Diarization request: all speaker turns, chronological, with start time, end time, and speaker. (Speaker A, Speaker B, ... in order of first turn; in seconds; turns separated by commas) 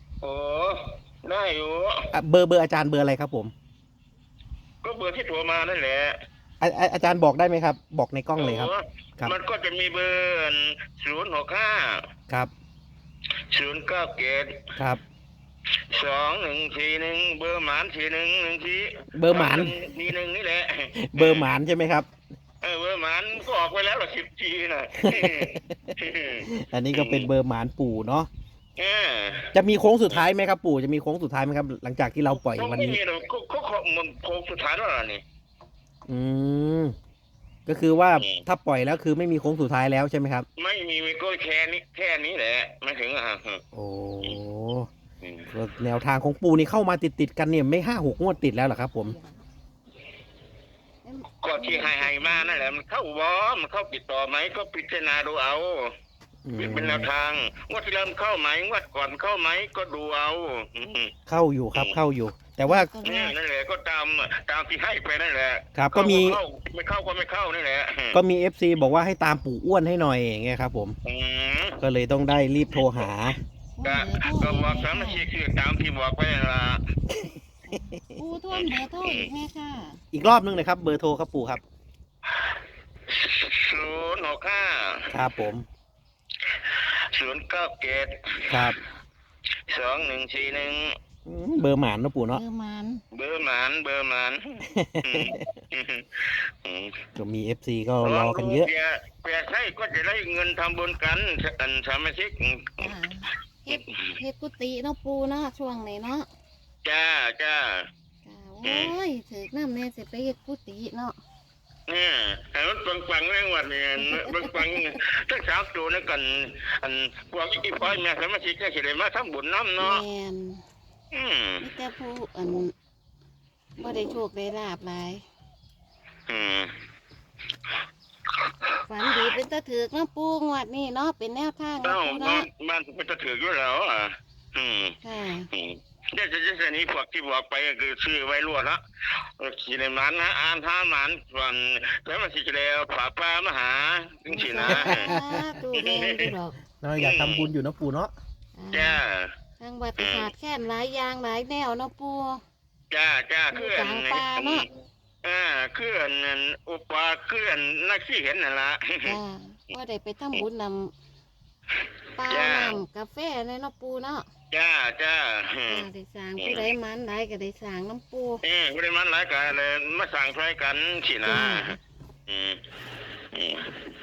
Speaker A: 0.2-2.1, Speaker B: 2.1-3.5, Speaker A: 4.8-6.2, Speaker B: 6.6-9.3, Speaker A: 8.4-12.0, Speaker A: 13.5-14.7, Speaker A: 15.9-21.5, Speaker B: 19.1-19.8, Speaker B: 21.0-22.1, Speaker A: 22.6-27.3, Speaker B: 25.0-25.6, Speaker B: 26.5-28.3, Speaker A: 28.8-29.5, Speaker B: 29.5-33.0, Speaker A: 32.4-35.2, Speaker B: 36.1-36.9, Speaker B: 37.7-40.5, Speaker A: 38.2-38.4, Speaker A: 40.5-43.6, Speaker B: 43.7-44.9, Speaker A: 45.2-45.5, Speaker B: 45.5-49.2, Speaker C: 51.0-52.7, Speaker A: 51.4-55.9, Speaker B: 56.4-57.1, Speaker A: 56.6-61.1, Speaker B: 61.3-62.9, Speaker A: 61.7-62.0, Speaker C: 62.6-63.3, Speaker A: 63.0-68.2, Speaker B: 65.7-66.4, Speaker B: 68.1-71.0, Speaker A: 71.0-71.8, Speaker B: 71.8-73.4, Speaker A: 72.8-73.1, Speaker C: 73.7-75.3, Speaker A: 73.8-76.8, Speaker C: 77.7-80.0, Speaker B: 77.7-78.1, Speaker A: 78.5-79.3, Speaker B: 80.1-81.6, Speaker A: 83.1-85.2, Speaker B: 85.1-85.7, Speaker A: 86.4-88.7, Speaker B: 88.5-88.8, Speaker A: 89.7-91.0, Speaker B: 91.2-92.4, Speaker C: 92.3-93.0, Speaker A: 93.1-97.0, Speaker B: 94.7-95.5, Speaker B: 97.2-98.7, Speaker A: 98.0-102.9, Speaker C: 102.8-106.3, Speaker A: 103.7-104.2, Speaker A: 106.8-107.9, Speaker C: 108.2-111.2, Speaker A: 108.6-109.0, Speaker A: 111.9-120.0, Speaker C: 114.0-114.8, Speaker C: 119.8-120.6, Speaker A: 121.1-121.7, Speaker C: 121.6-122.7, Speaker C: 123.8-125.2, Speaker A: 126.3-126.7, Speaker A: 128.4-129.3, Speaker C: 128.8-132.4, Speaker A: 131.8-135.0, Speaker C: 135.0-135.5, Speaker A: 135.5-145.1, Speaker C: 144.3-146.6, Speaker B: 144.7-145.4, Speaker A: 145.7-146.3, Speaker B: 146.8-148.1, Speaker A: 147.0-147.5, Speaker C: 148.6-149.0, Speaker A: 148.7-149.3, Speaker C: 149.6-152.4, Speaker A: 150.0-150.3, Speaker A: 152.9-154.7, Speaker C: 153.5-154.7, Speaker A: 155.2-159.2, Speaker C: 159.0-160.9, Speaker A: 161.7-162.8, Speaker C: 162.2-164.3, Speaker A: 164.5-166.7, Speaker C: 165.7-168.4, Speaker A: 168.4-171.8, Speaker C: 171.2-171.8, Speaker A: 172.3-172.6, Speaker A: 173.3-173.8